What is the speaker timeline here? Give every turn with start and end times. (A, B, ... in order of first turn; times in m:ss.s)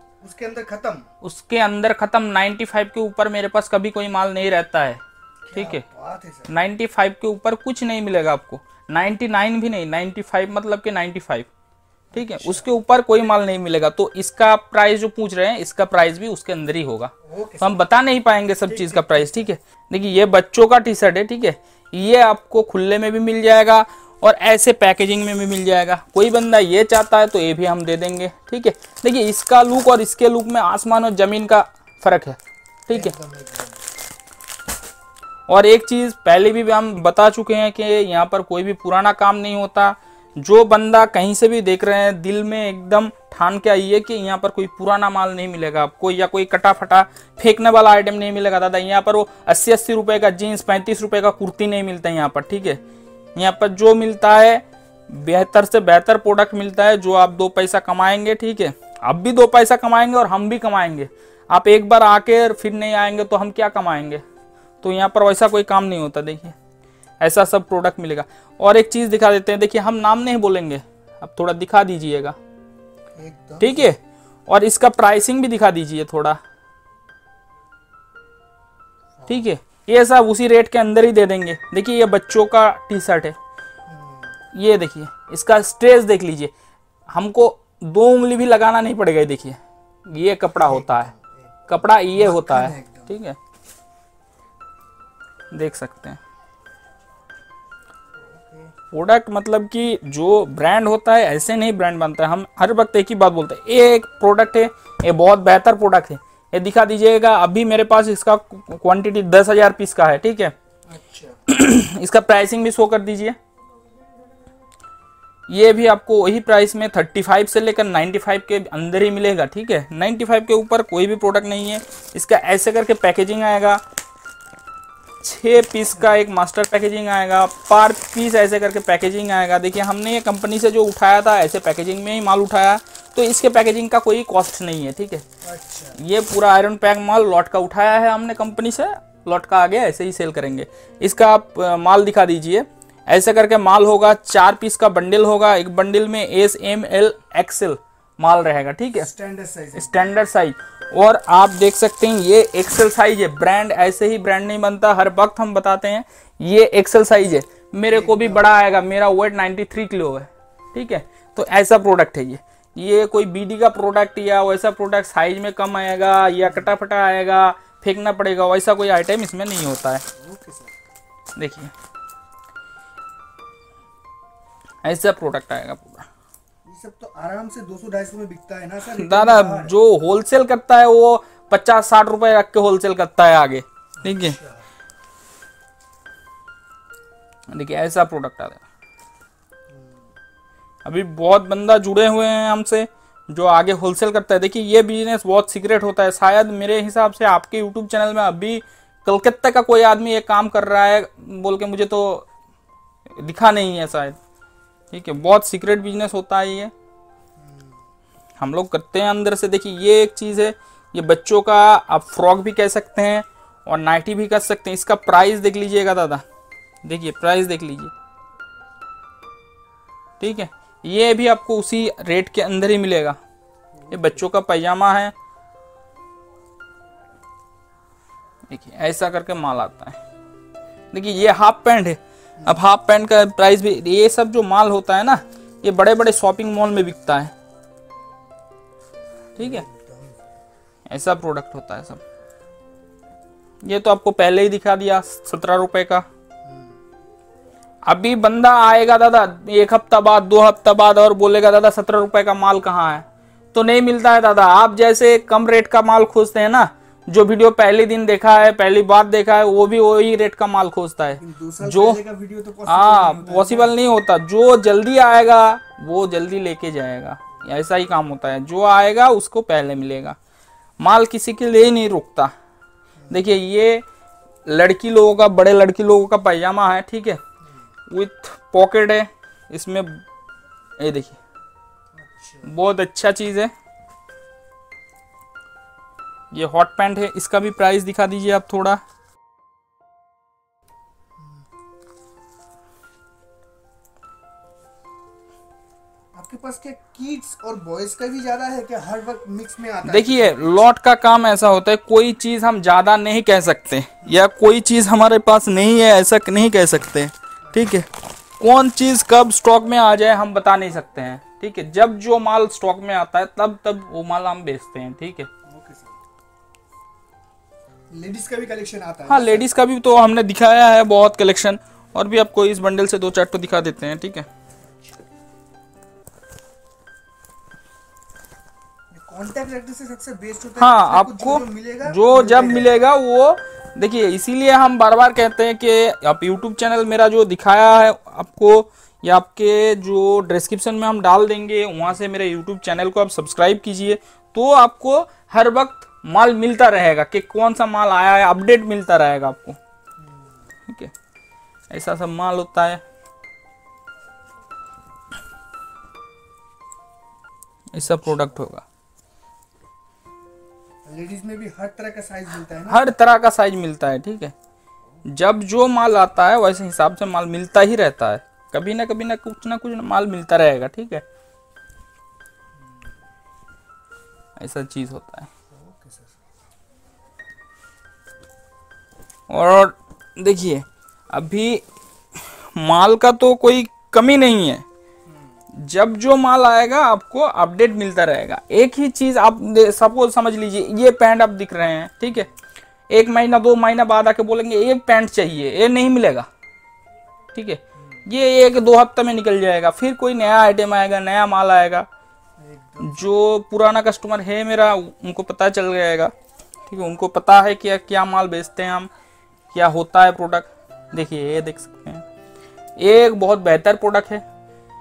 0:00.2-0:01.1 A
0:01.2-0:05.0 B
0:05.4-0:06.5 A
0:05.5-0:05.8 B
0:06.5-0:11.5 B
0:12.1-0:12.7 A
0:12.1-0:33.1 B
0:17.2-0:17.8 A
0:18.6-0:19.5 A
0:32.9-0:33.9 A
0:35.5-0:52.8 B
0:53.4-1:04.2 B
1:04.8-1:06.6 B
1:07.2-1:12.4 B
1:13.1-1:13.9 A
1:13.6-1:16.4 B
1:19.2-1:19.5 A
1:19.3-1:23.4 B
1:23.9-1:24.4 A
1:24.5-1:26.5 B
1:27.1-1:31.1 B
1:30.6-1:33.2 A
1:31.7-1:33.4 B
1:35.5-1:36.2 B
1:38.1-1:38.7 A
1:38.9-1:50.5 B
1:50.9-1:51.4 A
1:51.5-1:53.4 B
1:55.5-2:03.8 B
2:05.2-2:15.2 B
2:15.4-2:16.0 A
2:16.0-2:29.1 B
2:29.0-2:30.2 A
2:29.7-2:50.0 B
2:37.9-2:38.5 A
2:46.4-2:46.7 A
2:50.2-2:50.8 A
2:51.4-2:51.7 B
2:54.8-2:56.1 B
2:56.6-2:59.7 A
2:58.9-3:04.4 B
3:04.0-3:04.7 A
3:07.5-3:08.6 B
3:09.7-3:10.1 A
3:10.8-3:22.3 B
3:23.2-3:24.2 B
3:24.9-3:26.7 B
3:27.4-3:27.9 A
3:28.4-3:36.2 B
3:36.8-3:37.9 B
3:40.2-3:43.2 B
3:43.7-3:44.3 A
3:43.9-3:45.1 B
3:48.5-3:50.0 B
3:50.9-3:57.3 B
3:59.4-4:00.2 A
3:59.4-3:59.6 B
4:00.9-4:02.0 B
4:03.6-4:06.0 B
4:06.4-4:06.8 A
4:07.9-4:22.0 B
4:21.2-4:23.7 A
4:22.7-4:30.2 B
4:30.8-4:32.3 B
4:33.0-4:33.2 A
4:33.1-4:33.8 B
4:34.4-4:37.2 B
4:37.4-4:37.7 A
4:37.9-4:40.0 B
4:40.8-4:41.2 B
4:41.9-4:42.5 A
4:42.4-4:43.5 B
4:46.3-4:48.8 B
4:51.2-4:51.5 A
4:56.1-5:00.6 A
4:59.9-5:07.9 B
5:07.4-5:07.7 A
5:08.4-5:15.3 B
5:15.4-5:16.0 A
5:17.9-5:19.5 A
5:19.1-5:24.3 B
5:24.6-5:25.0 A
5:28.9-5:32.7 A
5:30.6-5:49.6 B
5:50.0-5:50.5 A
5:51.7-5:52.8 B
5:57.7-5:58.6 B
5:57.7-5:58.5 A
6:00.8-6:02.9 A
6:02.7-6:04.3 B
6:05.0-6:11.0 B
6:12.5-6:13.0 A
6:14.4-6:15.3 B
6:15.5-6:16.3 A
6:19.3-6:21.6 B
6:22.6-6:24.6 B
6:25.0-6:25.4 A
6:25.5-6:32.3 B
6:32.9-6:36.3 B
6:37.3-6:41.9 B
6:37.8-6:38.0 A
6:42.4-6:43.1 A
6:42.8-6:46.1 B
6:46.7-6:48.9 B
6:49.5-6:52.0 B
6:52.8-6:54.2 B